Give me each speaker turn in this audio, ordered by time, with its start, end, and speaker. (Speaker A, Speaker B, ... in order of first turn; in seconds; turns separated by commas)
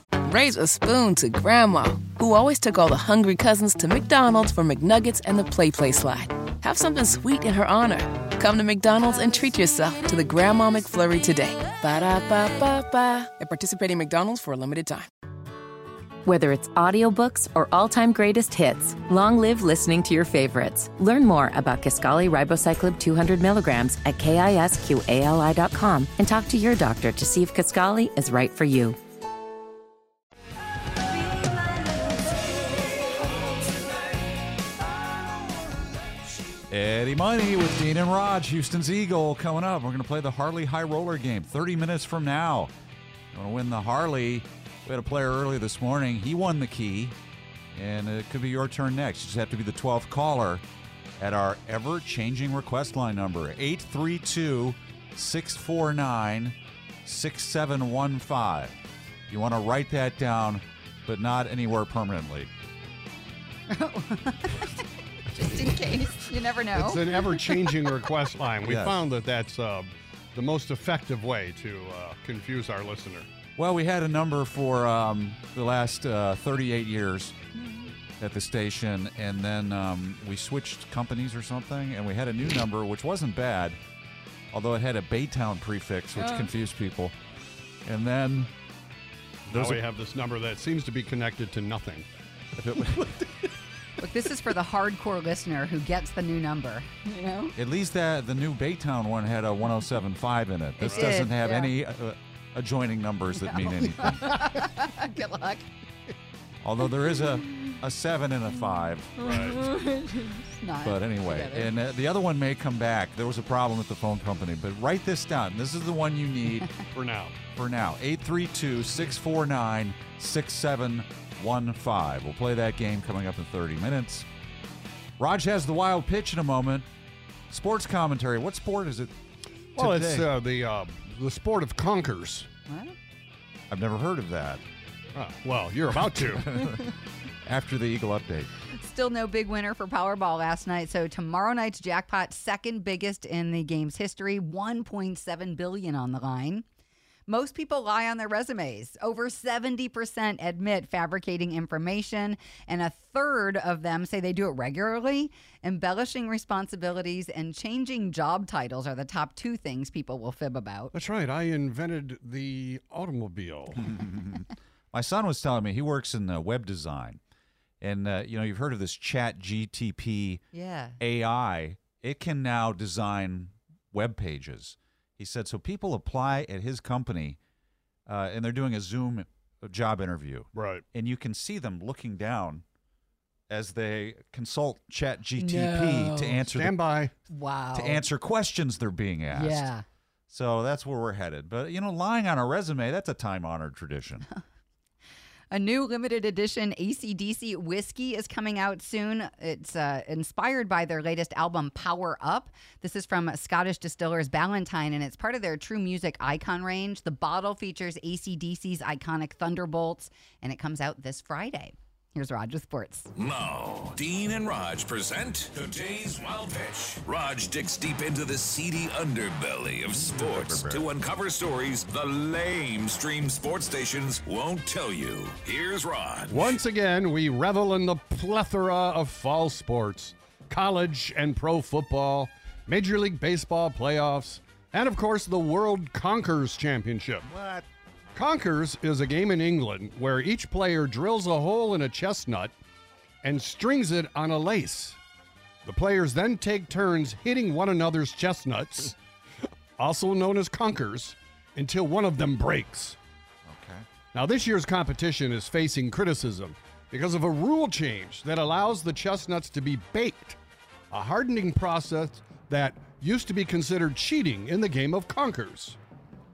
Speaker A: 0.2-15.1, Speaker B: 16.2-29.0, Speaker C: 36.7-42.7, Speaker C: 43.3-47.1, Speaker C: 47.7-50.6, Speaker C: 51.2-58.8, Speaker C: 59.3-62.5, Speaker D: 63.7-67.8, Speaker E: 66.7-73.3, Speaker C: 68.6-69.0, Speaker C: 73.5-77.4, Speaker D: 77.5-77.9, Speaker C: 78.2-83.8, Speaker C: 84.5-87.1, Speaker D: 86.2-86.5, Speaker C: 87.8-88.5, Speaker E: 89.5-92.0, Speaker C: 89.5-89.8, Speaker C: 92.6-93.0, Speaker D: 94.0-97.5, Speaker C: 97.5-104.4, Speaker D: 100.8-101.7, Speaker E: 100.9-101.2, Speaker D: 103.4-105.7, Speaker C: 106.6-109.5, Speaker D: 109.2-111.7, Speaker E: 109.2-109.6, Speaker C: 110.8-116.7, Speaker E: 116.9-117.4, Speaker C: 117.5-124.3, Speaker C: 125.2-126.9, Speaker C: 127.5-129.1, Speaker C: 129.7-130.3, Speaker E: 129.8-132.5, Speaker D: 132.7-132.9, Speaker C: 133.7-134.6, Speaker E: 135.1-136.5, Speaker C: 136.1-136.8, Speaker C: 137.4-138.5, Speaker D: 138.7-146.6, Speaker D: 147.3-160.9, Speaker E: 160.9-163.8, Speaker C: 163.8-167.2, Speaker C: 167.8-170.4, Speaker D: 170.5-171.0, Speaker C: 171.0-177.4, Speaker C: 178.1-182.6, Speaker E: 180.5-180.8, Speaker C: 183.5-186.8, Speaker D: 185.4-186.4, Speaker E: 186.5-187.1, Speaker D: 187.3-188.0, Speaker C: 187.7-189.7, Speaker D: 189.3-189.8, Speaker C: 190.3-194.2, Speaker D: 195.5-213.1, Speaker F: 213.2-226.6, Speaker C: 219.9-220.9, Speaker E: 226.3-237.3, Speaker C: 237.3-237.6, Speaker E: 238.1-242.5, Speaker E: 243.2-245.0, Speaker E: 245.6-249.0, Speaker E: 249.8-253.0, Speaker C: 253.4-253.8, Speaker E: 254.1-260.4, Speaker E: 260.9-265.8